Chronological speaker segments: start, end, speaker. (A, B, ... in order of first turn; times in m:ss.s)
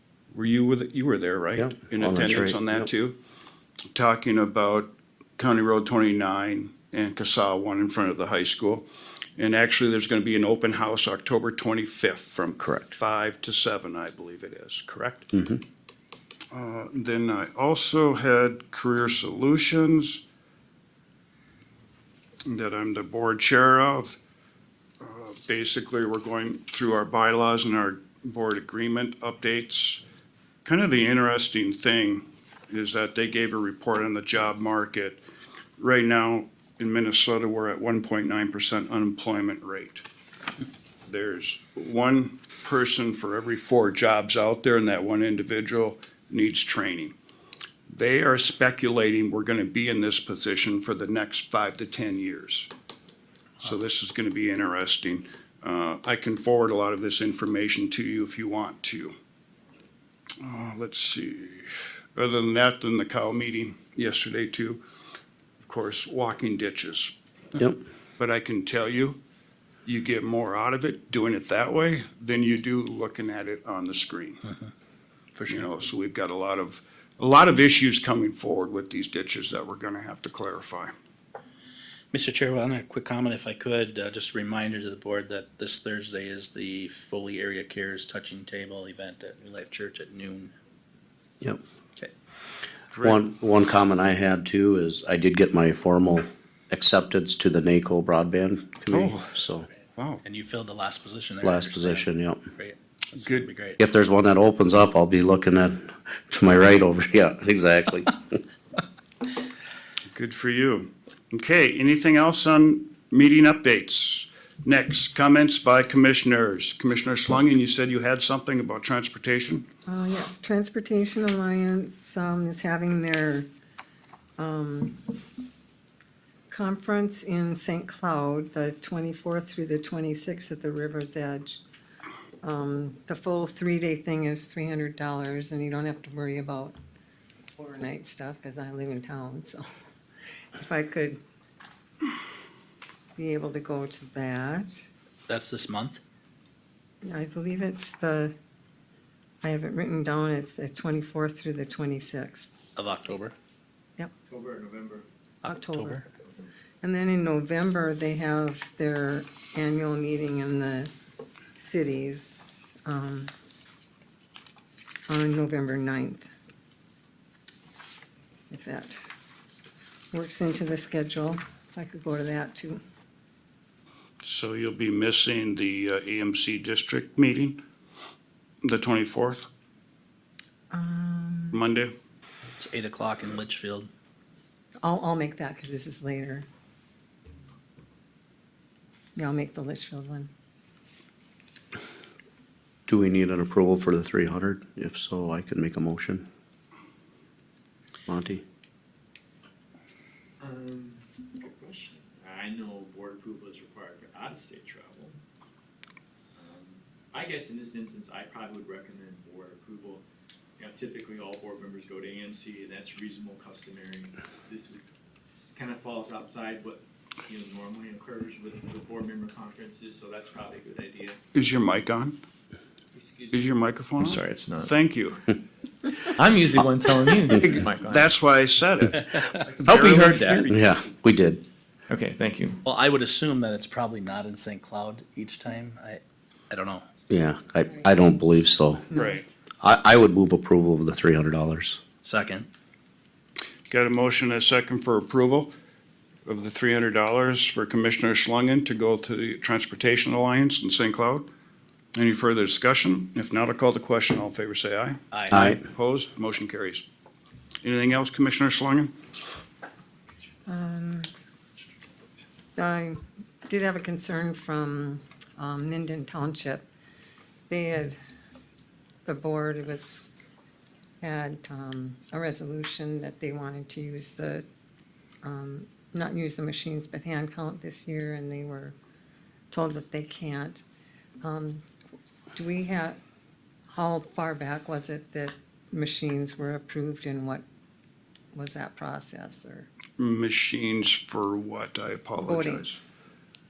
0:00.3-0:03.2 A
0:01.6-0:02.9 B
0:03.9-0:08.8 A
0:09.4-0:15.3 A
0:15.3-0:15.6 B
0:16.5-0:20.2 A
0:22.4-0:24.2 A
0:25.0-0:30.0 A
0:30.6-0:35.2 A
0:35.8-0:40.0 A
0:41.1-0:47.1 A
0:47.9-0:52.7 A
0:53.6-0:59.1 A
1:00.4-1:04.8 A
1:05.6-1:07.1 A
1:08.2-1:09.2 A
1:09.8-1:14.5 A
1:15.4-1:20.9 A
1:22.1-1:30.5 C
1:32.9-1:33.2 A
1:33.0-1:39.7 B
1:38.9-1:39.3 A
1:40.0-1:40.2 A
1:40.2-1:43.8 C
1:41.4-1:42.5 B
1:43.2-1:43.5 A
1:43.8-1:48.4 B
1:50.1-1:59.7 A
1:59.9-2:03.5 D
2:04.4-2:05.0 D
2:06.5-2:11.6 D
2:12.4-2:16.7 D
2:17.6-2:19.6 D
2:20.5-2:21.2 D
2:23.2-2:24.9 D
2:25.3-2:26.0 C
2:27.0-2:28.3 D
2:29.4-2:32.5 D
2:32.7-2:33.3 C
2:34.3-2:35.0 E
2:35.4-2:36.1 C
2:35.4-2:36.0 D
2:36.8-2:40.9 D
2:41.6-2:43.3 D
2:45.1-2:46.3 D
2:48.5-2:49.0 D
2:50.1-2:52.8 D
2:54.2-2:57.6 A
2:58.6-2:59.5 A
3:00.7-3:01.6 D
3:01.5-3:01.9 A
3:02.6-3:03.9 C
3:04.8-3:06.5 D
3:09.2-3:10.3 D
3:12.9-3:16.2 B
3:18.1-3:18.4 B
3:20.4-3:25.2 E
3:26.4-3:30.0 E
3:30.6-3:41.2 E
3:41.3-3:42.2 A
3:42.9-3:43.6 E
3:43.3-3:45.3 A
3:44.0-3:44.7 F
3:46.1-3:48.1 E
3:47.8-3:50.5 A
3:49.6-3:50.5 E
3:49.8-3:50.4 F
3:50.5-3:51.4 B
3:51.9-3:52.5 F
3:52.6-3:56.9 C
3:57.1-3:58.9 B
3:58.9-3:59.2 A
3:59.6-4:01.8 B
4:02.0-4:02.5 C
4:03.7-4:05.5 A
4:06.2-4:11.3 A
4:11.9-4:16.8 A
4:15.1-4:15.5 C
4:15.3-4:15.6 B
4:17.6-4:18.9 A
4:20.5-4:21.1 D
4:22.6-4:26.7 D
4:27.5-4:28.0 D
4:29.0-4:30.0 D
4:31.0-4:34.4 D
4:35.2-4:38.7 D
4:39.5-4:40.6 D
4:41.2-4:41.6 D
4:42.3-4:43.0 D
4:43.7-4:47.4 D
4:48.3-4:49.7 D
4:50.0-4:52.8 A
4:52.2-4:52.7 D